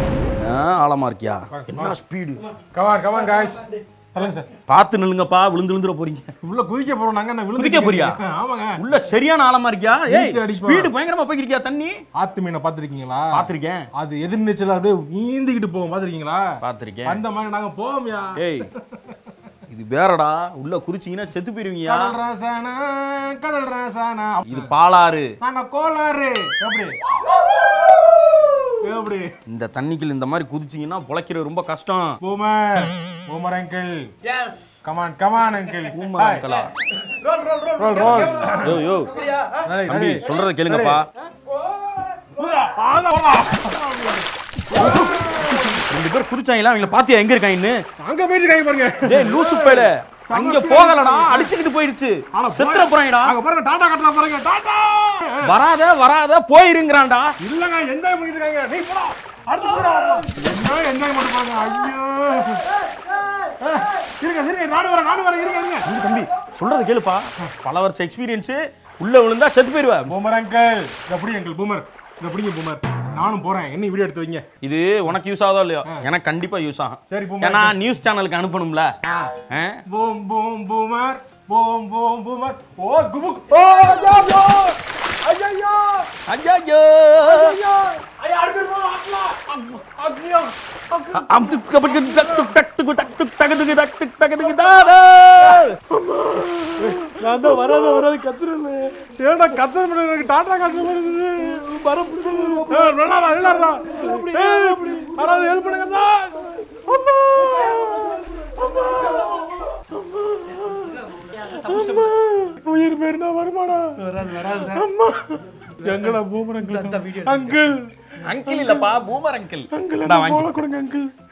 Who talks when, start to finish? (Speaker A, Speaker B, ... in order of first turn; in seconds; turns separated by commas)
Speaker A: 0.2-2.5, Speaker B: 1.5-2.0, Speaker B: 2.7-4.5, Speaker A: 4.7-6.3, Speaker B: 6.4-8.8, Speaker A: 7.6-8.2, Speaker A: 8.8-12.0, Speaker B: 10.1-10.9, Speaker B: 12.2-16.5, Speaker A: 13.3-13.9, Speaker A: 16.6-17.2, Speaker B: 17.1-19.2, Speaker A: 18.4-18.7, Speaker A: 19.7-22.2, Speaker B: 21.9-24.7, Speaker A: 24.5-25.3, Speaker B: 25.4-27.0, Speaker C: 27.8-28.2, Speaker B: 28.8-29.3, Speaker A: 29.5-32.2, Speaker B: 32.2-34.0, Speaker C: 34.3-34.8, Speaker B: 34.8-36.6, Speaker A: 35.9-36.7, Speaker C: 37.1-39.7, Speaker B: 37.8-38.8, Speaker A: 38.4-39.2, Speaker B: 39.6-41.0, Speaker A: 39.9-41.1, Speaker B: 42.3-45.8, Speaker A: 44.7-47.8, Speaker B: 48.0-51.5, Speaker A: 49.0-53.4, Speaker B: 52.3-55.6, Speaker A: 55.4-57.4, Speaker B: 57.4-62.8, Speaker B: 63.6-65.9, Speaker A: 65.8-70.2, Speaker B: 70.1-74.5, Speaker A: 74.6-78.9, Speaker B: 77.1-77.8, Speaker B: 79.0-79.3, Speaker A: 79.5-79.8, Speaker B: 79.9-86.1, Speaker A: 86.3-87.6, Speaker B: 87.2-91.2, Speaker A: 91.1-95.8, Speaker B: 91.9-92.5, Speaker B: 94.5-94.9, Speaker B: 95.5-98.1, Speaker C: 96.9-99.0, Speaker B: 99.0-118.9, Speaker C: 101.5-105.5, Speaker C: 107.4-109.3, Speaker C: 110.8-112.2, Speaker C: 114.0-114.8, Speaker C: 115.8-117.7, Speaker A: 118.2-120.6, Speaker B: 119.7-121.1